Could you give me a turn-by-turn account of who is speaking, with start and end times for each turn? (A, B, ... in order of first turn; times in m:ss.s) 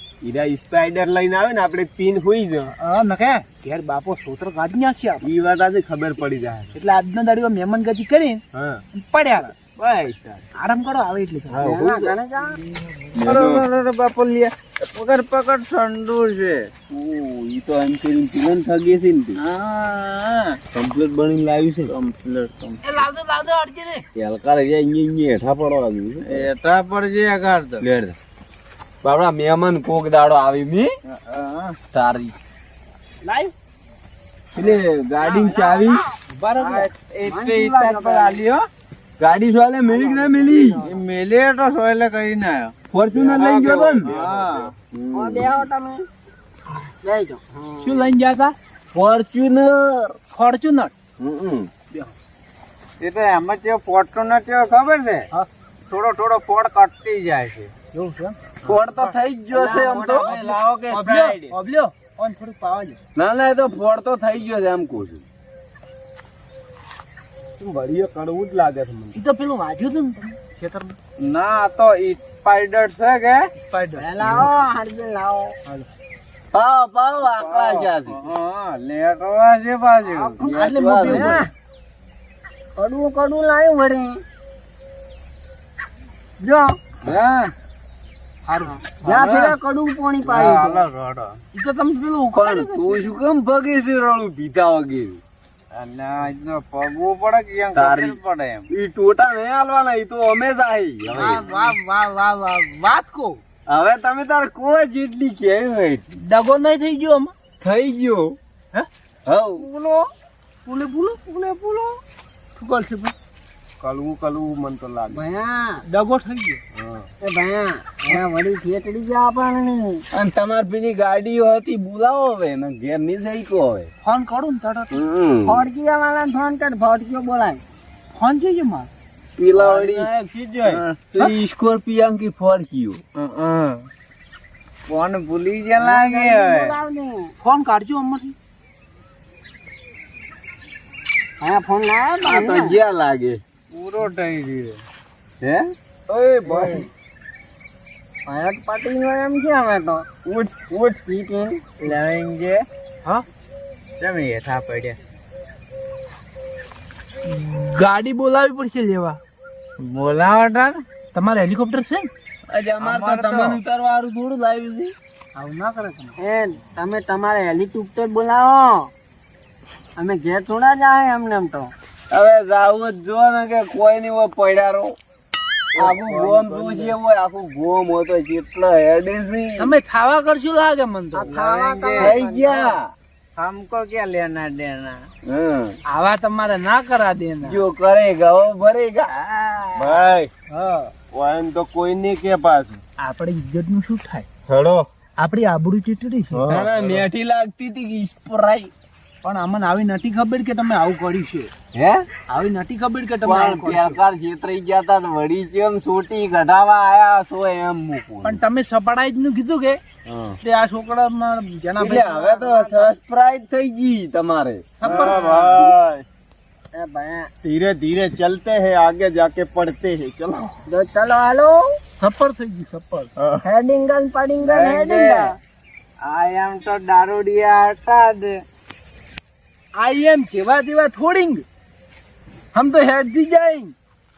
0:00.2-0:02.7 A
0:02.8-0:05.3 B
0:05.2-0:06.7 A
0:06.7-0:08.4 B
0:08.5-0:08.8 A
0:08.9-0:09.5 B
0:09.8-0:10.4 C
0:10.6-0:11.6 B
0:11.6-0:12.1 C
0:11.6-0:12.1 A
0:11.6-0:12.6 D
0:13.1-0:13.6 C
0:13.2-0:16.7 E
0:16.9-0:19.4 C
0:19.4-0:20.6 E
0:20.7-0:21.9 C
0:21.9-0:22.8 E
0:22.8-0:24.0 B
0:24.2-0:26.5 C
0:26.2-0:27.8 E
0:27.8-0:28.1 C
0:29.0-0:30.9 C
0:31.2-0:31.8 E
0:31.9-0:32.3 C
0:33.2-0:33.5 B
0:34.5-0:36.0 C
0:36.3-0:36.9 B
0:36.5-0:38.6 E
0:37.2-0:38.4 D
0:39.2-0:40.8 C
0:39.9-0:41.0 D
0:40.8-0:42.7 E
0:42.9-0:44.1 C
0:43.1-0:44.7 A
0:44.0-0:44.7 E
0:44.9-0:45.6 C
0:45.1-0:46.1 D
0:47.0-0:48.0 D
0:47.8-0:48.5 B
0:48.9-0:50.2 C
0:50.3-0:50.9 B
0:51.2-0:51.7 C
0:53.0-0:55.3 E
0:55.9-0:57.7 E
0:57.9-0:58.4 B
0:58.6-1:01.5 C
0:59.5-1:00.4 D
1:00.3-1:03.0 B
1:03.2-1:05.2 C
1:07.6-1:09.2 A
1:09.1-1:11.0 B
1:11.2-1:13.5 E
1:13.7-1:14.1 B
1:14.0-1:15.6 D
1:16.5-1:18.2 C
1:17.3-1:20.5 E
1:20.2-1:21.5 D
1:20.4-1:21.5 B
1:20.8-1:21.4 C
1:22.8-1:24.2 D
1:26.4-1:26.8 D
1:27.0-1:27.5 B
1:28.5-1:29.5 B
1:29.0-1:30.8 D
1:29.1-1:29.5 E
1:30.2-1:31.4 E
1:31.5-1:33.0 B
1:32.3-1:35.2 C
1:35.7-1:38.7 E
1:37.7-1:38.2 C
1:38.7-1:41.4 C
1:41.1-1:43.4 B
1:41.2-1:41.7 E
1:43.7-1:46.1 C
1:46.2-1:47.3 B
1:47.6-1:48.4 C
1:49.2-1:49.6 C
1:49.6-1:50.1 B
1:50.6-1:51.8 B
1:52.6-1:53.1 B
1:53.8-1:55.2 A
1:55.1-1:55.8 D
1:55.9-1:56.6 B
1:56.7-1:57.1 A
1:57.2-2:00.0 D
2:00.1-2:03.9 C
2:04.0-2:05.0 B
2:04.9-2:05.6 C
2:05.4-2:07.6 D
2:08.2-2:08.9 B
2:09.4-2:13.0 C
2:09.9-2:10.8 A
2:10.6-2:11.1 E
2:13.2-2:13.8 E
2:14.9-2:16.8 E
2:15.8-2:17.3 D
2:17.4-2:18.4 B
2:21.4-2:22.8 D
2:22.2-2:23.4 C
2:23.7-2:24.8 E
2:25.4-2:26.8 C
2:26.4-2:26.9 D
2:28.3-2:30.0 D
2:30.2-2:31.0 C
2:31.0-2:31.8 D
2:31.8-2:32.6 E
2:34.0-2:35.0 E
2:37.2-2:39.2 B
2:39.8-2:40.8 E
2:41.1-2:42.1 B
2:42.5-2:44.9 C
2:42.8-2:43.6 B
2:45.4-2:46.2 B
2:46.2-2:48.9 D
2:50.0-2:51.7 D
2:52.1-2:55.0 C
2:55.7-2:57.0 A
2:55.8-2:59.7 C
2:59.6-3:01.8 B
3:01.1-3:02.8 D
3:01.4-3:02.2 E
3:02.0-3:02.9 C
3:03.4-3:05.0 E
3:05.2-3:05.8 C
3:05.9-3:07.6 B
3:07.4-3:10.1 C
3:09.8-3:10.3 A
3:10.5-3:10.9 B
3:11.1-3:12.8 A
3:13.0-3:14.3 B
3:14.5-3:14.9 A
3:15.2-3:16.6 B
3:16.3-3:17.1 A
3:16.5-3:18.7 C
3:19.2-3:21.5 B
3:21.7-3:22.0 C
3:22.3-3:24.0 B
3:23.2-3:28.4 C
3:28.2-3:29.8 B
3:30.0-3:30.4 C
3:30.4-3:32.6 B
3:31.8-3:34.7 C
3:32.6-3:32.9 D
3:34.8-3:35.7 B
3:34.8-3:36.0 A
3:36.7-3:37.3 D
3:37.4-3:40.6 A
3:40.7-3:41.8 D
3:42.0-3:43.1 B
3:43.2-3:43.4 A
3:43.4-3:45.4 D
3:44.4-3:45.3 E
3:46.0-3:48.4 E
3:49.8-3:51.4 B
3:52.5-3:53.7 B